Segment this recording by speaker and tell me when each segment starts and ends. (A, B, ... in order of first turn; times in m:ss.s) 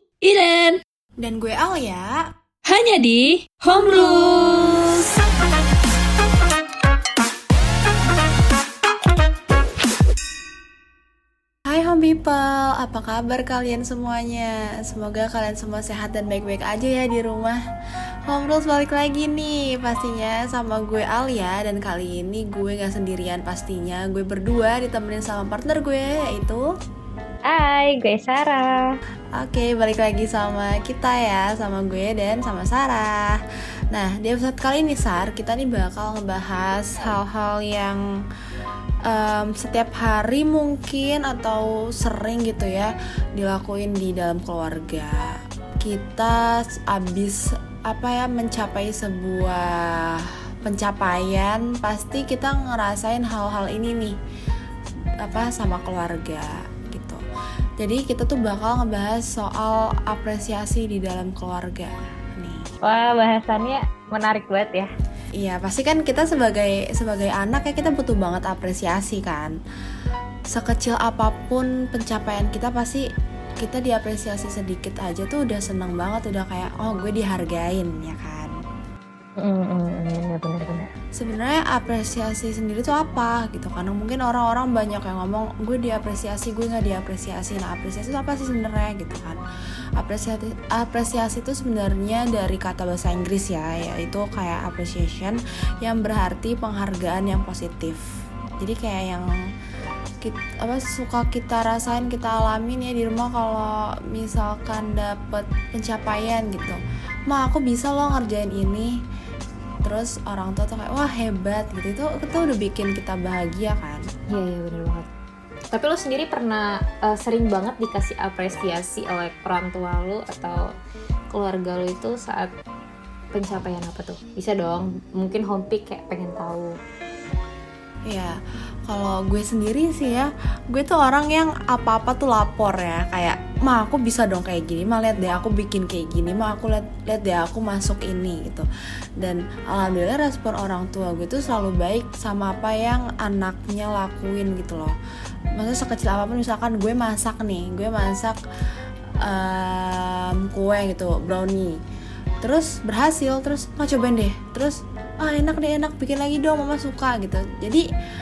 0:00.2-0:00.8 A
0:01.2-0:02.2 B
0:02.6-0:05.1 A
0:11.7-0:17.6 B
0:18.3-0:26.6 B
0:27.5-0:29.0 C
0:29.4-0:33.4 B
0:33.9-0:38.0 B
0:39.1-0:45.2 B
0:45.8-0:54.2 B
0:55.2-0:57.2 B
0:57.8-1:02.6 B
1:02.8-1:04.9 C
1:05.4-1:09.6 B
1:10.5-1:13.0 B
1:13.6-1:18.5 B
1:19.4-1:20.9 C
1:21.2-1:29.4 B
1:30.0-1:38.0 B
1:38.6-1:39.3 B
1:40.2-1:48.9 B
1:49.8-1:54.0 B
1:54.3-1:55.1 C
1:55.7-2:00.6 C
2:01.3-2:02.5 C
2:03.3-2:06.7 C
2:08.1-2:08.4 B
2:08.9-2:18.7 B
2:19.2-2:25.0 B
2:25.6-2:28.4 B
2:29.2-2:31.8 B
2:32.4-2:37.8 B